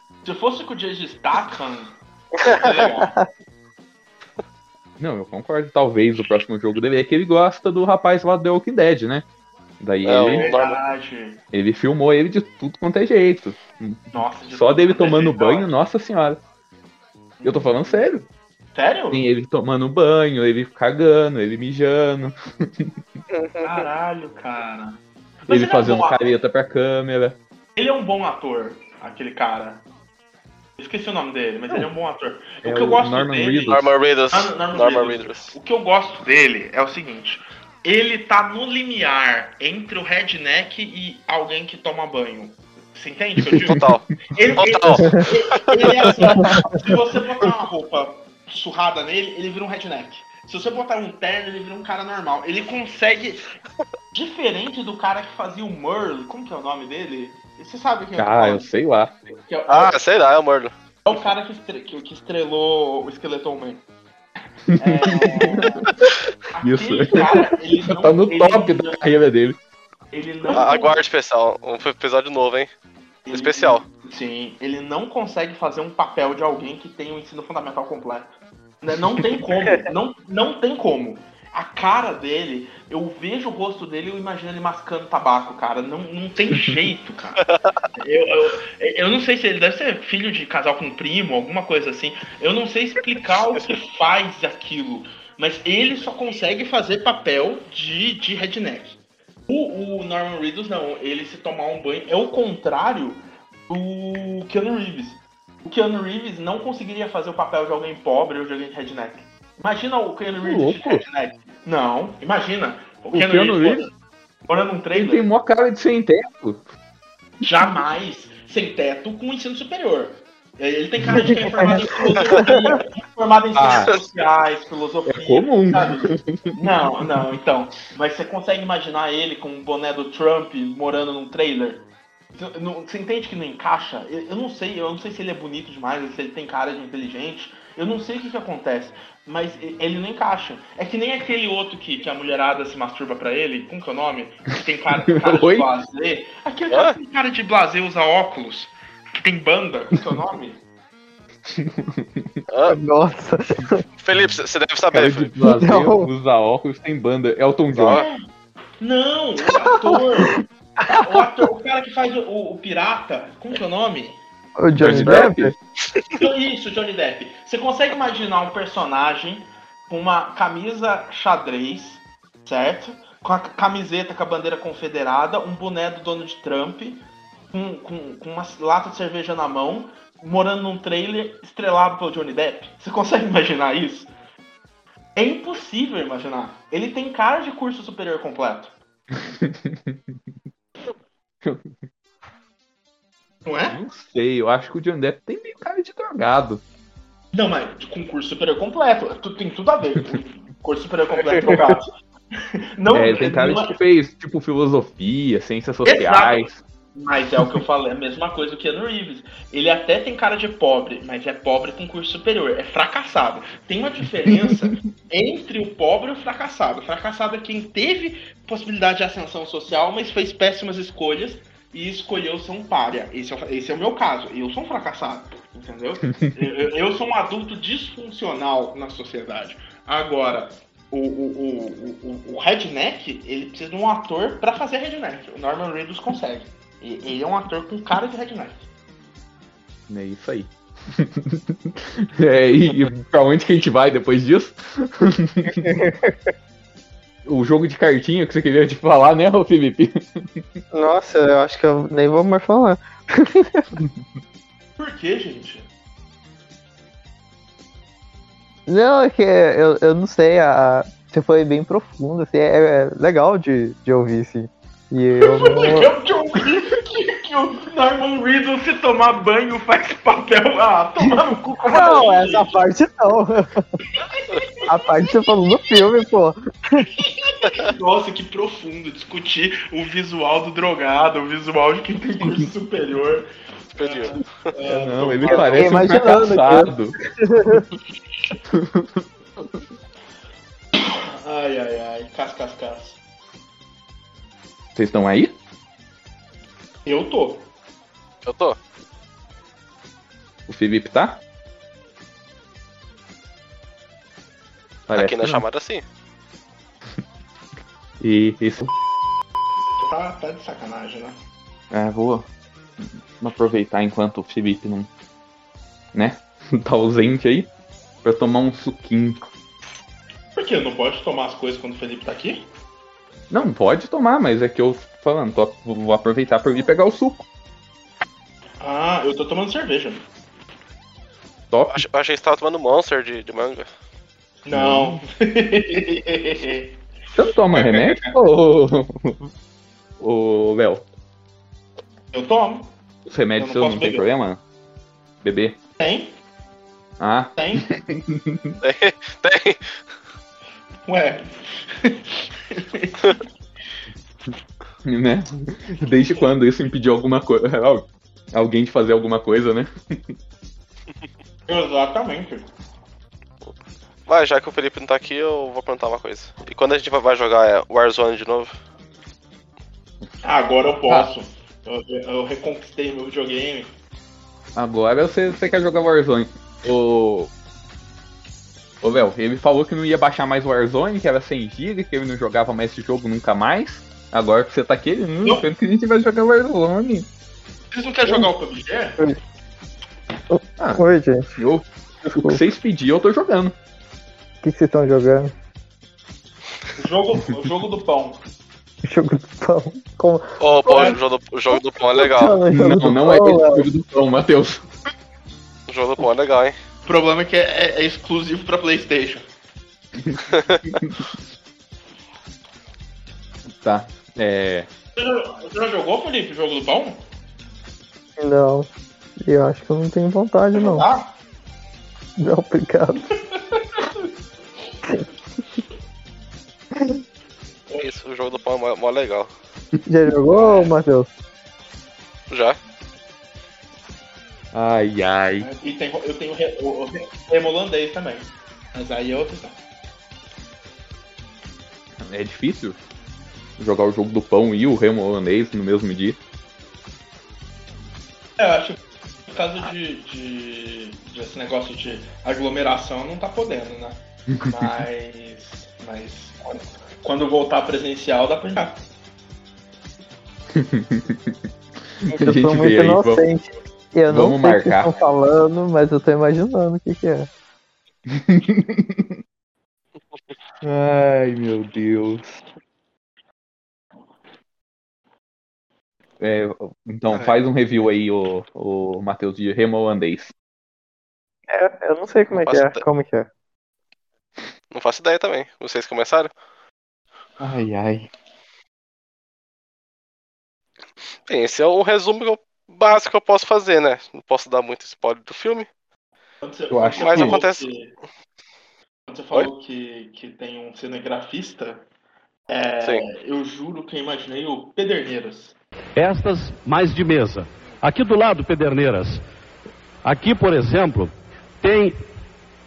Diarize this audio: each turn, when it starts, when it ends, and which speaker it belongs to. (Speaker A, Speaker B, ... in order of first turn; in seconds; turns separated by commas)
Speaker A: 0.2-3.2, Speaker B: 5.0-9.3, Speaker B: 9.8-10.5, Speaker C: 10.0-10.8, Speaker A: 10.2-11.4, Speaker B: 11.5-16.4, Speaker A: 14.1-15.7, Speaker A: 17.4-18.1, Speaker B: 17.4-18.3, Speaker A: 18.8-19.2, Speaker B: 19.1-22.9, Speaker D: 23.3-23.8, Speaker A: 23.6-26.4, Speaker B: 25.5-27.4, Speaker A: 27.8-29.8, Speaker A: 30.8-53.5, Speaker B: 32.6-33.9, Speaker C: 33.7-35.6, Speaker B: 43.6-43.8, Speaker C: 43.7-44.0, Speaker C: 44.6-46.4, Speaker D: 46.4-46.9, Speaker A: 54.1-58.7, Speaker B: 58.2-59.3, Speaker A: 59.5-60.0, Speaker C: 59.7-60.7, Speaker A: 61.1-63.8, Speaker B: 64.8-65.9, Speaker A: 64.8-65.9, Speaker A: 66.5-69.0, Speaker B: 66.6-69.6, Speaker A: 70.1-71.0, Speaker C: 70.5-72.7, Speaker A: 73.2-87.5, Speaker C: 73.3-73.8, Speaker A: 88.0-113.9, Speaker B: 110.4-111.0, Speaker B: 113.1-113.9, Speaker A: 114.5-115.3, Speaker B: 114.9-116.6, Speaker A: 117.4-150.6, Speaker B: 123.5-124.0, Speaker B: 125.1-126.6, Speaker B: 145.1-145.7, Speaker C: 146.7-146.9, Speaker B: 151.5-152.4, Speaker C: 152.5-152.8, Speaker D: 152.7-153.8, Speaker C: 154.0-155.3, Speaker B: 154.9-158.0, Speaker D: 155.4-156.1, Speaker C: 157.7-158.1, Speaker A: 157.9-158.2, Speaker A: 158.8-164.2, Speaker D: 159.8-160.2, Speaker D: 164.6-165.5, Speaker B: 164.8-165.6, Speaker C: 165.0-165.3, Speaker C: 165.9-166.2, Speaker A: 166.2-184.1, Speaker A: 185.2-188.8, Speaker B: 189.2-190.2, Speaker A: 193.4-193.8, Speaker B: 193.7-196.6, Speaker A: 197.3-201.9, Speaker A: 202.8-203.8, Speaker B: 202.9-206.6, Speaker A: 205.8-238.7, Speaker B: 214.4-214.8, Speaker B: 239.9-245.8, Speaker D: 245.6-246.2, Speaker B: 247.3-250.4, Speaker D: 250.7-253.7, Speaker A: 254.8-255.7, Speaker D: 258.7-265.9, Speaker A: 265.2-272.5, Speaker D: 271.7-273.6, Speaker A: 274.0-274.9, Speaker D: 274.7-276.9, Speaker A: 276.9-283.3, Speaker C: 283.8-284.2, Speaker A: 283.8-285.9, Speaker B: 284.7-286.9, Speaker D: 285.2-287.7, Speaker B: 288.5-289.0, Speaker A: 290.8-293.0, Speaker B: 294.8-295.3, Speaker A: 296.9-297.5, Speaker C: 298.2-298.6, Speaker B: 300.5-301.2, Speaker B: 304.9-305.4, Speaker C: 304.9-305.8, Speaker B: 308.0-308.7, Speaker A: 309.8-311.2, Speaker B: 311.7-312.3, Speaker B: 312.8-314.9, Speaker B: 315.9-317.5, Speaker B: 318.0-319.2, Speaker A: 320.4-322.5, Speaker B: 323.3-327.2, Speaker A: 328.6-330.0, Speaker B: 331.5-331.8, Speaker C: 331.7-333.7, Speaker A: 334.4-336.8, Speaker B: 334.5-335.0, Speaker B: 337.1-339.3, Speaker A: 337.5-338.2, Speaker B: 340.0-340.9, Speaker A: 342.1-342.7, Speaker B: 343.1-344.4, Speaker A: 343.4-344.1, Speaker B: 345.2-345.6, Speaker A: 345.8-346.1, Speaker B: 347.0-348.6, Speaker A: 347.4-347.7, Speaker C: 348.6-349.7, Speaker A: 350.9-353.2, Speaker B: 354.9-360.0, Speaker A: 361.5-362.5, Speaker C: 364.1-368.6, Speaker A: 370.2-373.7, Speaker B: 374.6-377.3, Speaker B: 378.8-387.1, Speaker A: 387.7-389.0, Speaker D: 390.3-391.4, Speaker B: 391.4-393.6, Speaker D: 394.4-395.3, Speaker A: 396.8-398.2, Speaker D: 398.8-401.0, Speaker C: 400.4-402.4, Speaker D: 401.9-403.7, Speaker B: 402.5-404.7, Speaker C: 405.7-406.6, Speaker A: 406.9-409.3, Speaker B: 410.0-411.1, Speaker C: 410.3-410.6, Speaker B: 413.6-414.7, Speaker A: 415.0-417.0, Speaker D: 418.2-418.7, Speaker D: 419.2-420.9, Speaker A: 420.5-421.1, Speaker D: 422.2-423.1, Speaker A: 423.6-423.9, Speaker C: 427.8-429.3, Speaker D: 429.9-431.1, Speaker A: 430.3-430.8, Speaker C: 432.3-432.6, Speaker B: 434.5-435.5, Speaker A: 435.4-439.6, Speaker B: 442.0-442.8, Speaker B: 443.6-446.2, Speaker A: 448.4-458.8, Speaker B: 454.3-454.7, Speaker B: 460.5-461.5, Speaker B: 462.0-463.2, Speaker D: 462.1-467.3, Speaker B: 464.1-464.9, Speaker B: 468.1-469.2, Speaker B: 470.6-472.4, Speaker B: 476.2-480.3, Speaker D: 481.5-483.3, Speaker C: 482.3-482.8, Speaker C: 484.7-486.3, Speaker B: 487.4-488.1, Speaker C: 491.3-495.7, Speaker A: 496.4-497.9, Speaker B: 496.7-497.4, Speaker C: 496.9-497.7, Speaker A: 499.1-501.8, Speaker A: 502.5-505.6, Speaker E: 506.0-509.2, Speaker E: 510.1-512.0